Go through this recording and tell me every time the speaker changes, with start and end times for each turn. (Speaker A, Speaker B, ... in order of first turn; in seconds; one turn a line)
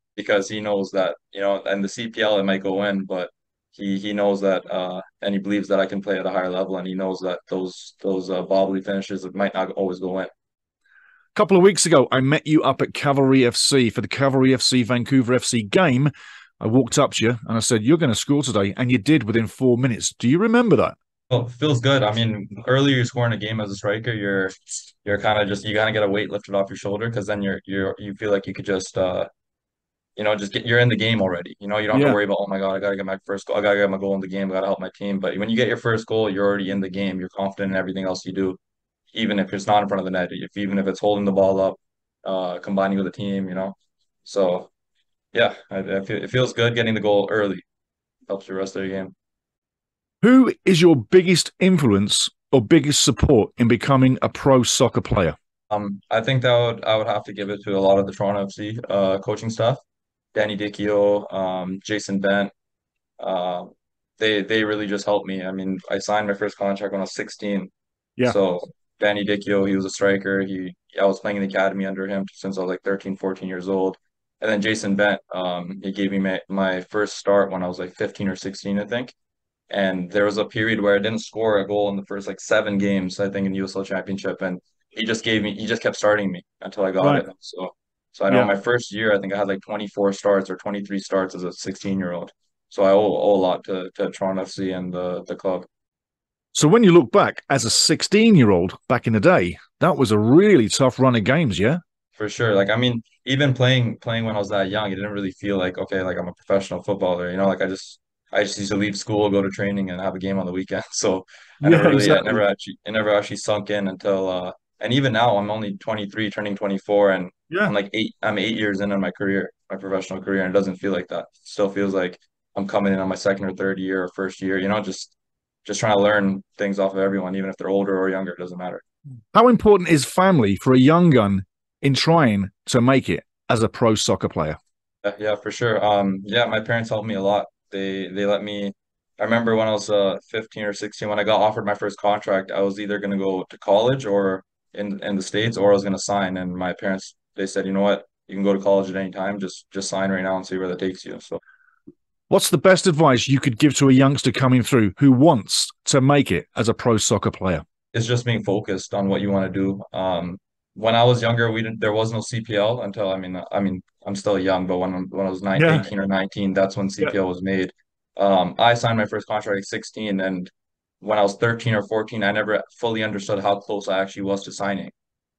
Speaker A: 0.2-10.3
Speaker B: 11.3-20.9
Speaker A: 21.3-29.3
Speaker A: 30.2-38.6
Speaker B: 31.9-32.2
Speaker A: 39.1-44.7
Speaker A: 45.3-47.6
Speaker A: 48.3-49.1
Speaker B: 50.2-55.4
Speaker A: 55.7-59.8
Speaker A: 60.3-62.5
Speaker A: 63.2-67.7
Speaker A: 68.2-79.1
Speaker A: 79.7-95.7
Speaker B: 87.0-87.3
Speaker B: 96.5-101.8
Speaker A: 102.2-125.1
Speaker B: 111.6-112.4
Speaker A: 125.7-128.8
Speaker B: 129.3-134.6
Speaker A: 135.0-151.4
Speaker B: 152.3-157.6
Speaker A: 157.9-174.9
Speaker B: 165.6-165.9